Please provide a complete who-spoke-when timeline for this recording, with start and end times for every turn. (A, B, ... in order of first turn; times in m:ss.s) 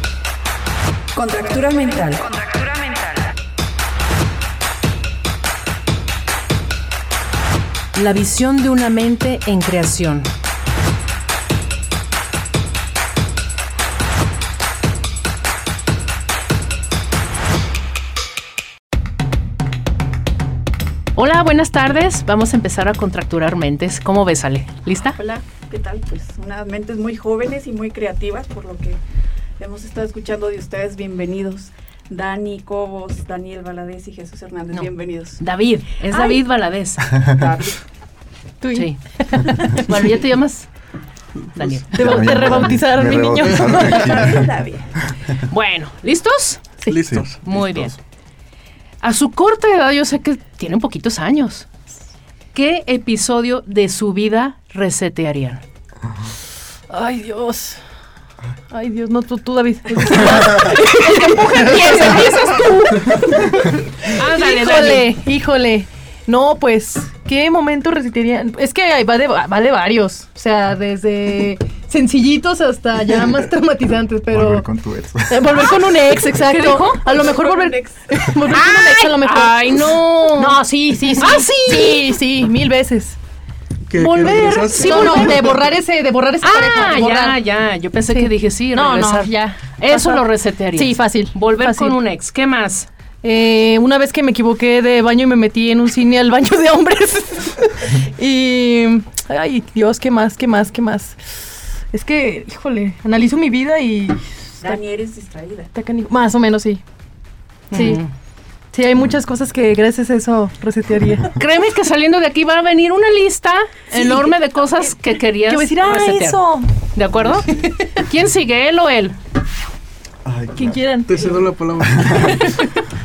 0:01.1-0:03.3 A
0:07.9-0:10.3 B
0:21.2-0:25.2 B
0:25.2-0:29.0 A
0:29.6-0:35.4 A
0:34.7-0:37.1 B
0:36.0-0:36.4 A
0:37.1-0:37.5 C
0:37.3-0:37.8 A
0:38.6-0:40.2 D
0:38.7-0:40.7 B
0:41.6-0:42.6 B
0:42.0-0:44.3 D
0:42.0-0:45.4 C
0:43.7-0:44.9 A
0:45.4-0:46.7 B
0:46.9-0:47.4 E
0:47.1-0:48.0 C
0:47.4-0:47.9 B
0:49.0-0:51.7 B
0:52.5-0:55.6 B
0:56.9-0:57.8 D
0:58.7-1:14.6 D
1:00.4-1:03.2 B
1:04.1-1:05.1 B
1:14.3-1:15.8 C
1:15.3-1:23.2 D
1:16.4-1:17.3 B
1:17.1-1:18.0 A
1:18.5-1:22.1 B
1:23.9-1:25.7 E
1:24.0-1:25.6 B
1:24.2-1:27.4 D
1:26.4-1:32.9 B
1:28.1-1:32.0 D
1:33.2-1:44.8 D
1:44.6-1:45.7 A
1:45.7-1:46.8 D
1:47.7-1:48.1 B
1:47.7-1:48.0 D
1:48.7-1:51.3 D
1:51.3-1:59.2 B
1:53.9-1:54.2 D
1:55.5-1:56.7 D
1:57.4-1:57.6 E
1:57.5-1:58.0 D
2:00.2-2:00.8 C
2:00.6-2:01.4 D
2:01.1-2:02.6 E
2:01.9-2:02.4 C